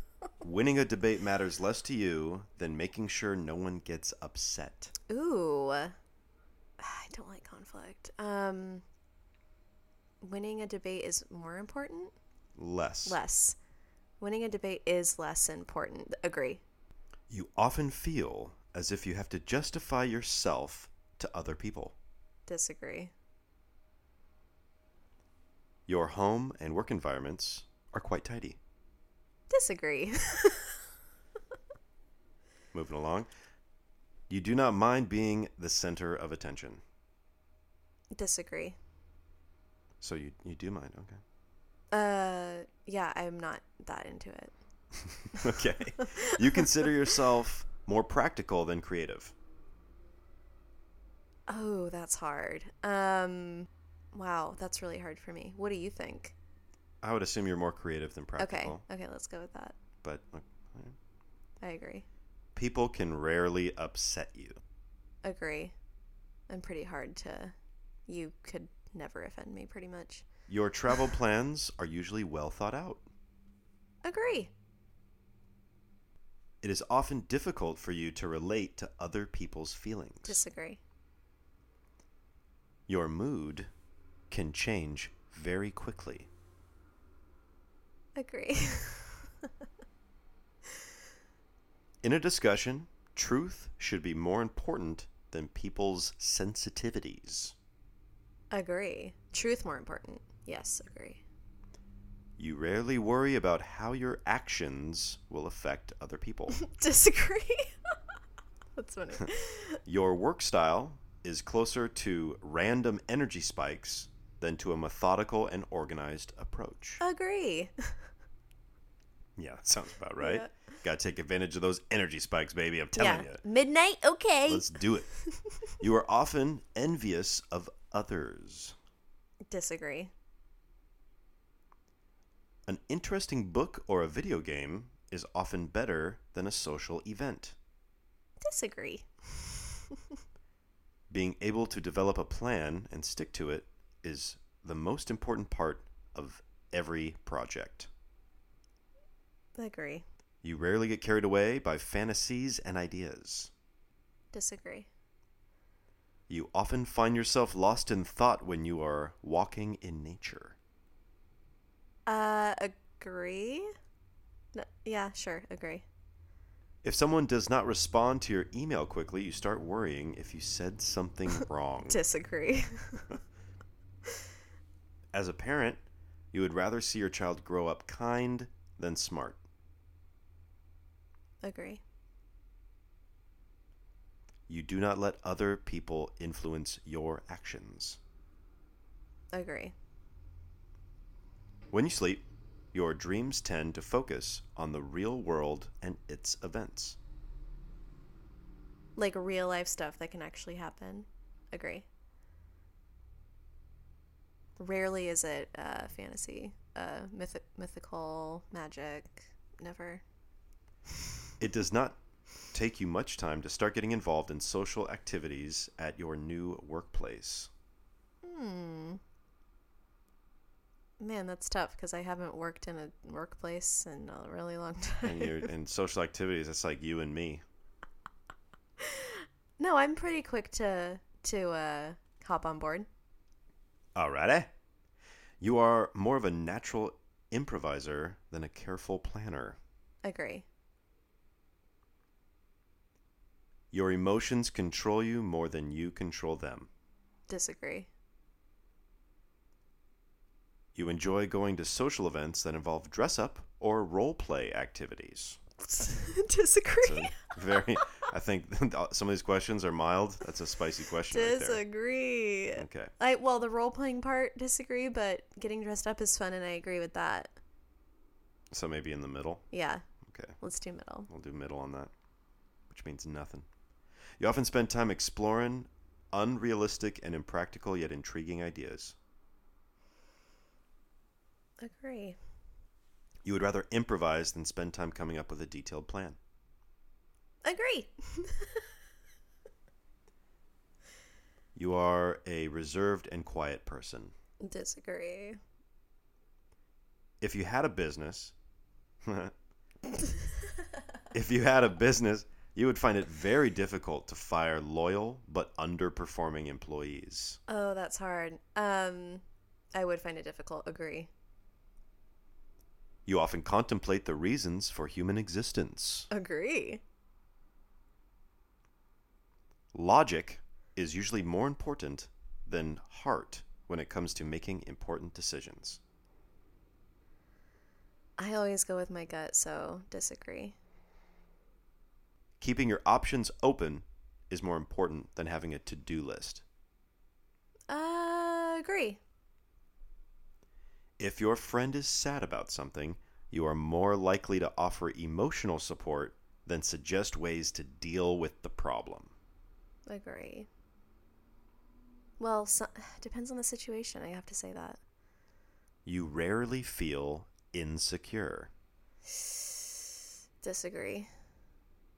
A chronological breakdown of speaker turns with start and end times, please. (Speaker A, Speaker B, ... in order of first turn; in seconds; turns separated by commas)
Speaker A: 0.4-4.9, Speaker B: 5.1-5.9, Speaker B: 6.8-8.8, Speaker B: 10.2-12.1, Speaker A: 12.6-13.2, Speaker B: 13.1-13.6, Speaker B: 14.2-16.6, Speaker A: 17.3-21.9, Speaker B: 22.5-23.1, Speaker A: 25.9-28.6, Speaker B: 29.5-30.8, Speaker A: 32.7-33.3, Speaker A: 34.3-36.8, Speaker B: 38.1-38.8, Speaker A: 40.0-41.2, Speaker B: 41.9-44.5, Speaker A: 45.0-49.3, Speaker B: 45.3-46.6, Speaker B: 51.5-56.3, Speaker A: 57.0-58.8, Speaker B: 58.4-59.7, Speaker A: 60.0-61.0, Speaker B: 61.6-62.0, Speaker A: 62.5-64.6, Speaker B: 65.2-65.7, Speaker B: 66.5-67.5, Speaker B: 68.1-70.2, Speaker A: 70.5-73.0, Speaker B: 74.0-74.5, Speaker A: 76.6-80.4, Speaker B: 80.2-80.8, Speaker A: 82.9-83.7, Speaker A: 84.3-86.3, Speaker B: 88.2-89.5, Speaker A: 92.0-97.5, Speaker B: 98.5-101.2, Speaker A: 102.4-106.6, Speaker B: 106.5-107.7, Speaker B: 108.8-109.8, Speaker A: 109.8-117.0, Speaker B: 117.0-118.0, Speaker A: 119.3-123.4, Speaker B: 120.2-120.5, Speaker B: 123.0-124.7, Speaker A: 124.5-125.1, Speaker A: 125.8-128.7, Speaker B: 129.5-130.1, Speaker A: 132.7-137.6, Speaker B: 138.4-140.0, Speaker A: 141.1-147.9, Speaker B: 149.6-150.0, Speaker A: 150.4-153.5, Speaker B: 154.3-154.9, Speaker A: 156.3-160.6, Speaker B: 162.1-163.7, Speaker B: 164.5-165.8, Speaker A: 166.8-172.0, Speaker B: 171.9-173.2, Speaker A: 175.1-175.8, Speaker A: 176.3-179.4, Speaker B: 181.4-181.8, Speaker A: 184.5-188.0, Speaker B: 189.3-189.7, Speaker A: 191.7-197.0, Speaker B: 198.9-201.8, Speaker B: 204.6-210.0, Speaker A: 211.4-212.0, Speaker A: 212.5-217.5, Speaker B: 218.2-219.0, Speaker B: 221.0-225.5, Speaker A: 225.0-227.4, Speaker B: 228.8-232.9, Speaker A: 233.9-234.5, Speaker A: 235.4-239.6, Speaker B: 240.0-240.4, Speaker A: 243.7-246.7, Speaker B: 247.3-247.9, Speaker A: 250.7-255.4, Speaker B: 255.6-257.6, Speaker A: 256.8-261.6, Speaker B: 261.1-267.3, Speaker A: 262.6-262.9, Speaker A: 268.5-269.4, Speaker B: 269.5-269.8, Speaker A: 270.0-270.4, Speaker B: 270.4-271.1, Speaker A: 271.1-271.9, Speaker A: 272.7-273.5, Speaker A: 274.2-278.9, Speaker B: 281.6-282.2, Speaker A: 283.2-286.2, Speaker B: 287.4-288.7, Speaker A: 291.5-294.1, Speaker B: 294.4-295.4, Speaker A: 297.2-298.3, Speaker A: 299.0-299.3, Speaker A: 301.1-307.4, Speaker B: 307.5-309.2, Speaker B: 309.7-311.1, Speaker A: 313.1-316.1, Speaker B: 316.1-316.8, Speaker A: 319.7-325.8, Speaker B: 328.2-330.6, Speaker A: 332.4-336.4, Speaker B: 337.7-339.0, Speaker A: 341.0-349.1, Speaker B: 349.9-350.5, Speaker B: 352.2-354.8, Speaker A: 355.8-358.5, Speaker B: 360.4-361.1